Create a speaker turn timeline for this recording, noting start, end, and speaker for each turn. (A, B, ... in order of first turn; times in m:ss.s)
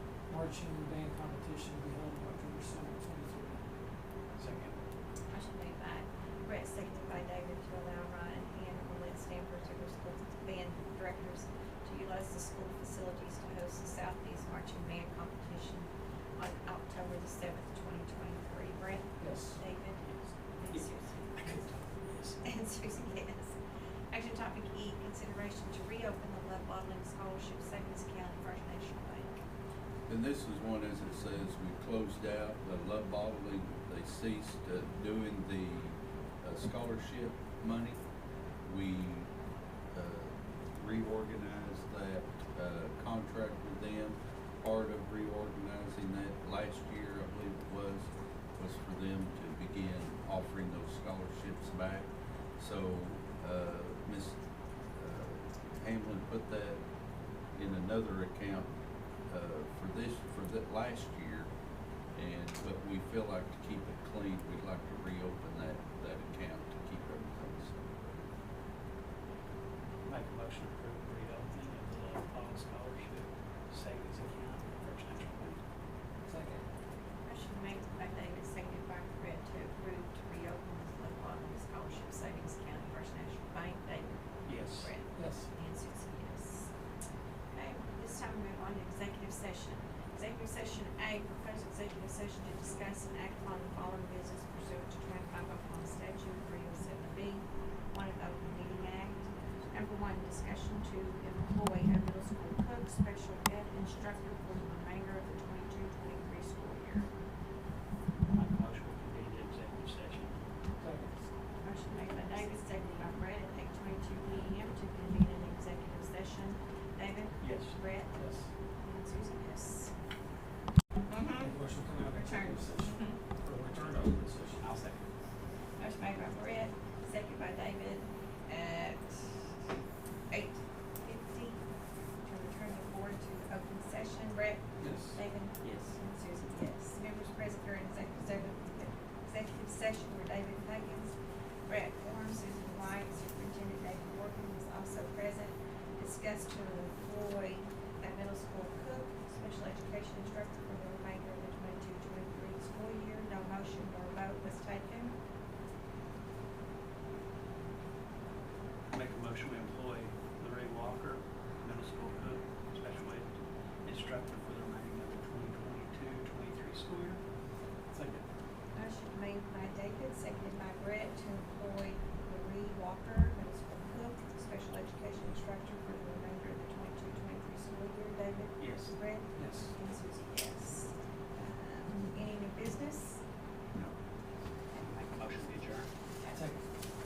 0:00.3-0:03.6 A
0:04.4-0:04.8 B
0:05.3-0:21.5 C
0:19.2-0:19.6 A
0:20.7-0:22.4 B
0:22.4-0:23.6 C
0:24.1-0:29.4 C
0:30.1-0:38.0 D
0:38.6-0:39.3 D
0:39.9-0:54.4 D
0:55.0-0:56.8 D
0:57.5-0:58.7 D
0:59.3-1:01.5 D
1:02.1-1:07.9 D
1:10.0-1:15.6 B
1:16.2-1:16.6 A
1:17.2-1:26.7 C
1:24.5-1:24.9 B
1:25.1-1:25.5 A
1:27.5-1:47.1 C
1:48.3-1:50.4 B
1:50.8-1:51.1 A
1:51.6-1:58.1 C
1:57.4-1:57.8 B
1:58.1-1:58.5 A
1:58.8-1:59.9 C
2:01.1-2:01.5 C
2:01.4-2:04.7 A
2:02.0-2:03.2 C
2:04.6-2:05.0 B
2:05.8-2:09.5 C
2:10.3-2:11.6 C
2:12.2-2:21.1 C
2:14.8-2:15.2 A
2:15.6-2:15.9 B
2:21.7-2:35.2 C
2:38.9-2:47.2 B
2:47.9-2:48.2 B
2:48.7-3:03.2 C
2:58.6-2:58.9 B
2:59.4-2:59.7 A
3:04.8-3:05.9 B
3:06.3-3:06.6 A